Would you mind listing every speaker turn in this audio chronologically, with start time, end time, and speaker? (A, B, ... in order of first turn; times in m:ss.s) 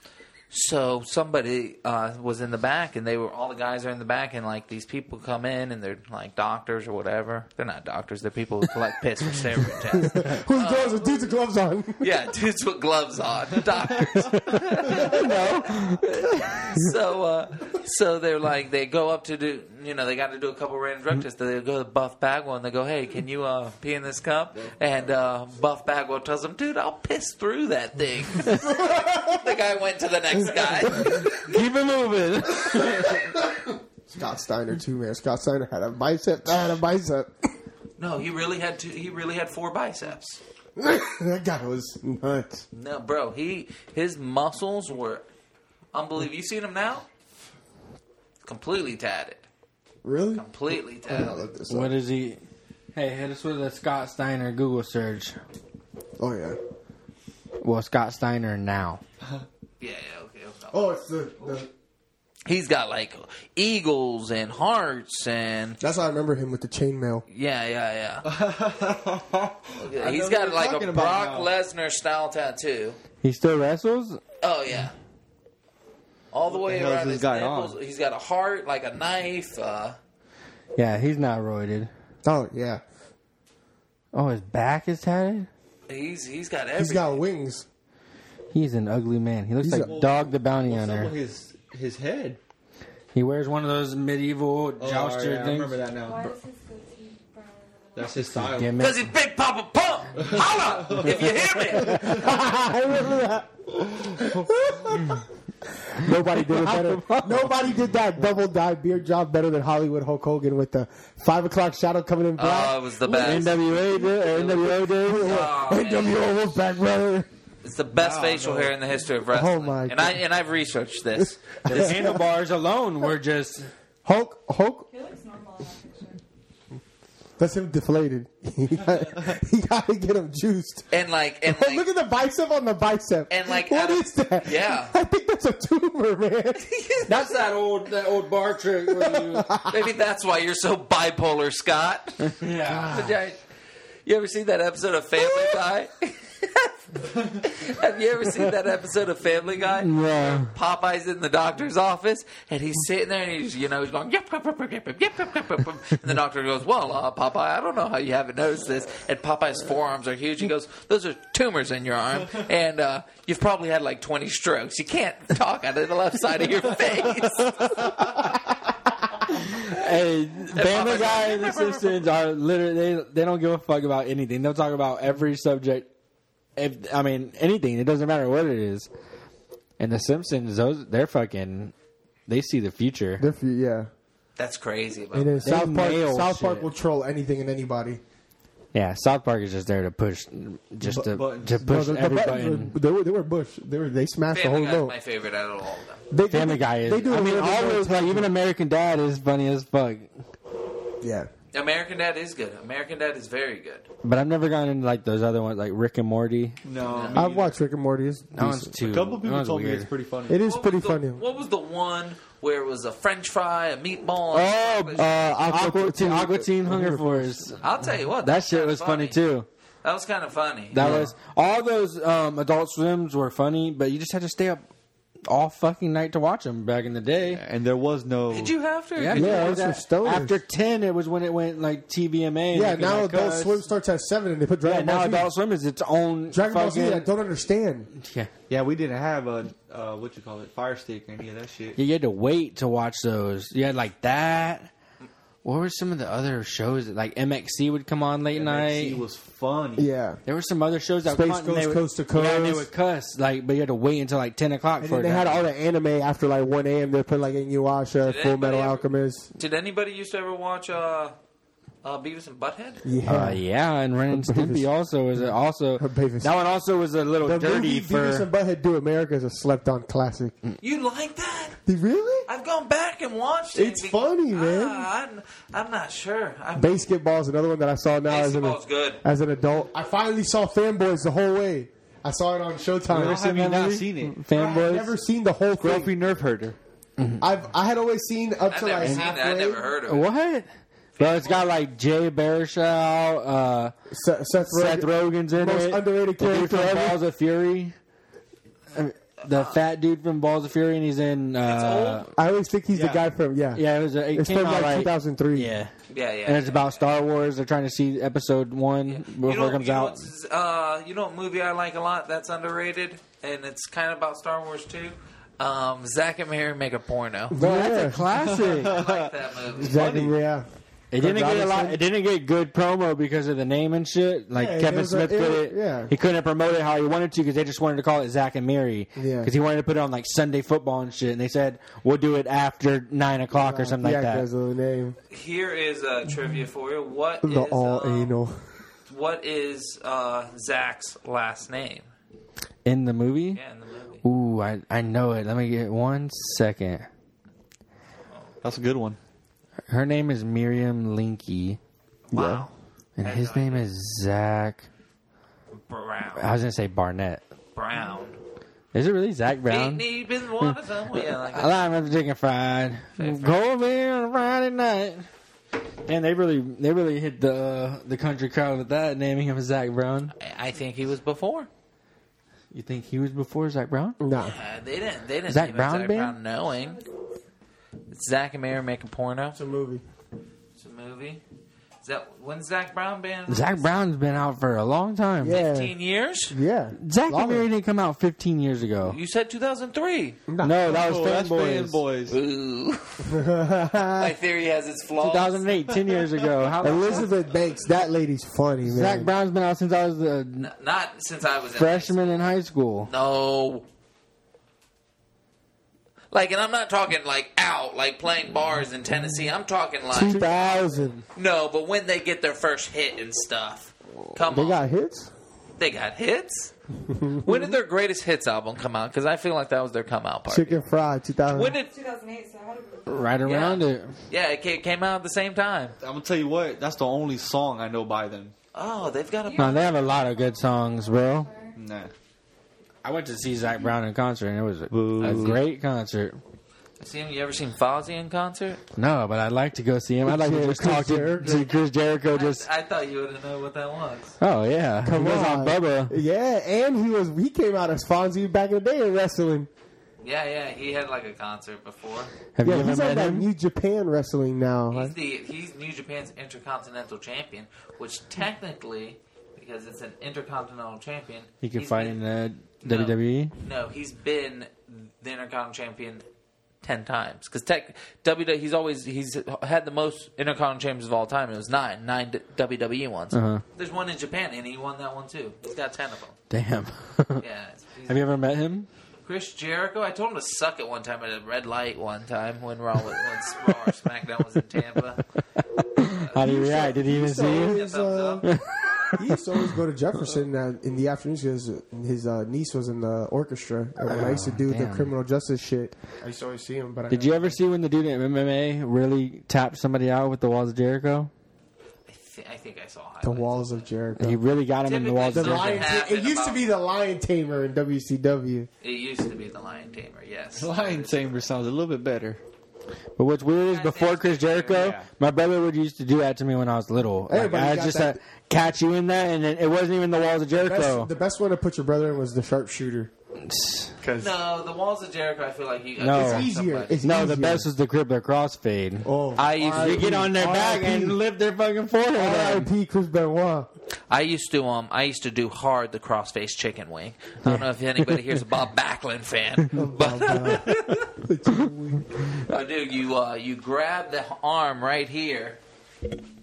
0:00.5-0:11.1 A
0:10.0-0:12.0 B
0:12.0-0:31.5 A
0:14.3-0:16.3 C
0:28.5-0:29.5 B
0:31.0-0:33.3 C
0:34.1-0:37.3 B
0:38.0-0:40.4 A
0:40.8-0:42.6 B
0:42.7-0:45.2 A
0:45.9-0:47.0 A
0:48.4-0:49.4 A
0:50.0-0:51.9 B
0:50.3-0:51.4 A
0:51.7-0:52.4 C
0:52.9-0:55.4 C
0:56.2-0:56.6 B
0:57.6-0:59.0 C
0:59.8-1:01.5 A
1:00.7-1:01.7 B
1:02.4-1:05.8 A
1:05.8-1:07.2 B
1:07.3-1:08.2 A
1:08.2-1:11.5 D
1:09.8-1:13.0 A
1:13.2-1:14.2 C
1:14.4-1:14.9 A
1:16.3-1:20.0 A
1:16.5-1:17.8 D
1:20.8-1:21.9 C
1:22.2-1:22.8 B
1:24.1-1:25.5 C
1:25.9-1:27.2 A
1:26.8-1:27.6 B
1:28.5-1:31.1 C
1:29.6-1:29.9 B
1:29.8-1:32.4 D
1:33.1-1:35.8 C
1:34.8-1:36.3 D
1:36.0-1:38.3 E
1:38.0-1:38.8 D
1:38.4-1:39.1 C
1:38.8-1:42.2 A
1:40.2-1:42.3 D
1:41.6-1:45.2 B
1:45.8-1:54.0 B
1:46.0-1:47.6 C
1:52.4-1:56.3 A
1:53.1-1:55.5 C
1:55.0-1:57.3 B
1:57.6-2:01.9 A
1:57.9-1:58.7 D
1:59.3-2:00.2 B
2:01.2-2:02.2 B
2:01.6-2:03.7 C
2:04.0-2:04.9 B
2:04.9-2:06.2 E
2:07.4-2:10.8 B
2:10.9-2:11.8 A
2:11.4-2:16.7 B
2:13.3-2:14.9 A
2:16.6-2:17.4 A
2:17.1-2:19.5 C
2:18.9-2:19.8 B
2:19.7-2:22.4 A
2:22.2-2:23.1 C
2:22.6-2:23.1 B
2:22.9-2:23.4 A
2:24.0-2:26.7 A
2:27.4-2:47.7 A
2:29.8-2:30.5 C
2:49.3-2:55.9 C
2:50.5-2:52.0 A
2:56.6-2:58.9 C
2:59.8-3:01.7 C
3:02.3-3:03.2 C
3:03.2-3:03.9 B
3:04.4-3:05.5 A
3:05.1-3:08.0 B
3:05.4-3:06.7 C
3:08.7-3:12.7 C
3:10.9-3:11.7 D
3:11.6-3:14.9 B
3:14.3-3:16.0 A
3:16.1-3:18.3 B
3:16.3-3:20.1 C
3:21.0-3:21.3 B
3:21.5-3:23.9 A
3:24.0-3:26.6 C
3:26.6-3:27.6 D
3:26.9-3:27.2 A
3:27.1-3:28.8 B
3:28.3-3:29.9 C
3:28.8-3:30.4 D
3:30.3-3:31.2 B
3:30.4-3:35.0 A
3:34.3-3:37.6 C
3:35.0-3:37.4 B
3:37.6-3:39.2 A
3:38.2-3:39.5 C
3:39.8-3:41.0 A
3:40.7-3:44.6 C
3:40.8-3:41.0 D
3:45.3-3:47.4 C
3:47.4-3:48.5 D
3:48.3-3:49.5 A
3:49.0-3:53.7 C
3:49.1-3:50.4 B
3:52.5-3:55.3 B
3:54.6-3:57.1 C
3:56.3-3:57.9 B
3:58.0-3:58.3 C
3:58.5-4:01.8 D
4:01.8-4:04.7 C
4:05.4-4:09.0 C
4:08.3-4:09.9 D
4:09.8-4:10.2 B
4:10.2-4:15.4 C
4:11.0-4:12.7 B
4:14.8-4:19.3 B
4:18.0-4:18.8 A
4:19.4-4:21.1 A
4:21.8-4:22.8 A
4:22.8-4:23.4 B
4:23.0-4:28.3 C
4:24.1-4:24.6 B
4:25.8-4:26.3 B
4:27.2-4:30.4 B
4:30.6-4:31.6 A
4:31.6-4:32.3 B
4:32.3-4:36.8 A
4:33.5-4:34.9 B
4:36.6-4:43.2 B
4:38.1-4:39.0 A
4:42.9-4:44.7 D
4:42.9-4:44.9 C
4:44.3-4:45.9 B
4:45.6-4:46.6 D
4:47.0-4:47.3 C
4:47.2-4:49.6 B
4:48.5-4:50.1 A
4:49.9-4:53.7 C
4:51.0-4:51.5 A
4:53.9-4:57.0 B
4:54.4-4:57.7 C
4:58.7-5:02.1 C
4:59.2-4:59.6 A
5:01.4-5:02.1 A
5:02.1-5:05.5 B
5:02.7-5:03.0 D
5:03.5-5:05.7 C
5:05.9-5:06.8 A
5:06.2-5:10.1 C
5:08.9-5:17.4 A
5:17.3-5:18.0 B
5:17.3-5:18.8 C
5:18.2-5:20.2 D
5:18.7-5:19.8 A
5:19.6-5:21.8 B
5:20.9-5:34.3 C
5:24.3-5:25.9 B
5:29.0-5:29.3 B
5:33.3-5:35.0 B
5:35.1-5:38.1 A
5:37.2-5:38.4 B
5:38.9-5:41.9 A
5:42.6-5:43.4 C
5:43.3-5:44.0 A
5:44.0-5:46.9 C
5:48.4-5:49.0 D
5:49.7-5:51.6 C
5:52.1-5:53.6 A
5:52.1-5:52.5 B
5:53.0-5:54.6 C
5:55.7-5:56.3 A
5:56.2-5:57.2 C
5:57.5-5:58.2 A
5:58.7-5:59.8 C
5:59.5-6:01.7 A
6:00.4-6:05.1 C
6:03.0-6:03.4 A
6:05.8-6:10.1 C
6:10.2-6:11.5 A
6:12.5-6:14.0 C
6:14.0-6:14.4 B
6:14.2-6:16.8 A
6:15.3-6:16.2 C
6:16.4-6:17.0 E
6:17.9-6:19.4 A
6:19.3-6:19.8 B
6:20.6-6:21.2 A
6:21.8-6:23.7 A
6:23.3-6:25.4 C
6:25.2-6:25.7 B
6:25.3-6:26.3 A
6:26.3-6:27.4 B
6:26.8-6:29.0 C
6:28.8-6:30.2 A
6:30.3-6:30.7 B
6:30.4-6:31.8 C
6:30.6-6:32.2 D
6:32.1-6:33.2 A
6:33.1-6:34.2 B
6:34.0-6:35.5 A
6:35.0-6:37.1 C
6:36.6-6:39.1 B
6:38.6-6:40.5 C
6:40.4-6:42.3 A
6:41.5-6:42.9 C
6:42.9-6:43.6 A
6:46.1-6:50.3 A
6:49.9-6:51.0 C
6:49.9-6:51.0 B
6:51.1-6:54.6 A
6:54.2-6:55.1 B
6:55.6-6:56.5 A
6:56.9-6:57.6 B
6:57.2-7:00.6 A
7:00.3-7:01.6 B
7:01.3-7:01.7 A
7:01.6-7:03.1 E
7:02.9-7:03.9 C
7:03.2-7:05.7 A
7:05.8-7:08.3 D
7:08.5-7:09.7 A
7:09.2-7:11.6 E
7:09.4-7:11.3 C
7:11.6-7:11.9 D
7:12.8-7:16.2 C
7:14.7-7:15.4 D
7:15.0-7:15.4 A
7:16.8-7:18.6 A
7:18.8-7:22.4 C
7:20.0-7:21.5 B
7:22.1-7:24.2 A
7:24.2-7:26.0 C
7:24.8-7:29.5 B
7:30.0-7:32.1 A
7:32.4-7:33.3 C
7:32.4-7:34.9 B
7:34.7-7:42.0 A
7:41.4-7:43.3 C
7:42.6-7:46.0 A
7:46.6-7:56.2 A
7:53.1-7:53.4 C
7:56.3-7:57.2 C
7:57.2-7:58.0 A
7:57.9-7:58.7 C
7:59.0-8:05.0 A
8:05.6-8:07.6 C
8:06.2-8:08.3 B
8:07.2-8:08.3 A
8:08.2-8:09.4 C
8:08.9-8:17.4 B
8:13.8-8:14.9 C
8:16.9-8:21.1 C
8:21.9-8:23.7 A
8:23.0-8:24.2 B
8:24.0-8:25.7 C
8:24.6-8:26.4 A
8:25.1-8:28.5 B
8:28.6-8:31.2 A
8:30.4-8:32.2 D
8:33.0-8:40.9 C
8:33.5-8:34.7 A
8:34.5-8:34.9 D
8:37.1-8:38.0 B
8:40.3-8:42.9 B
8:43.2-8:43.7 C
8:43.8-8:44.2 B
8:44.0-8:46.8 A
8:45.8-8:46.3 C
8:45.9-8:47.5 B
8:46.8-8:52.5 C
8:48.8-8:51.0 B
8:49.2-8:49.9 A
8:52.0-8:53.5 B
8:53.9-9:00.9 A
8:57.2-8:58.0 C
8:59.5-9:01.9 B
9:02.3-9:05.4 A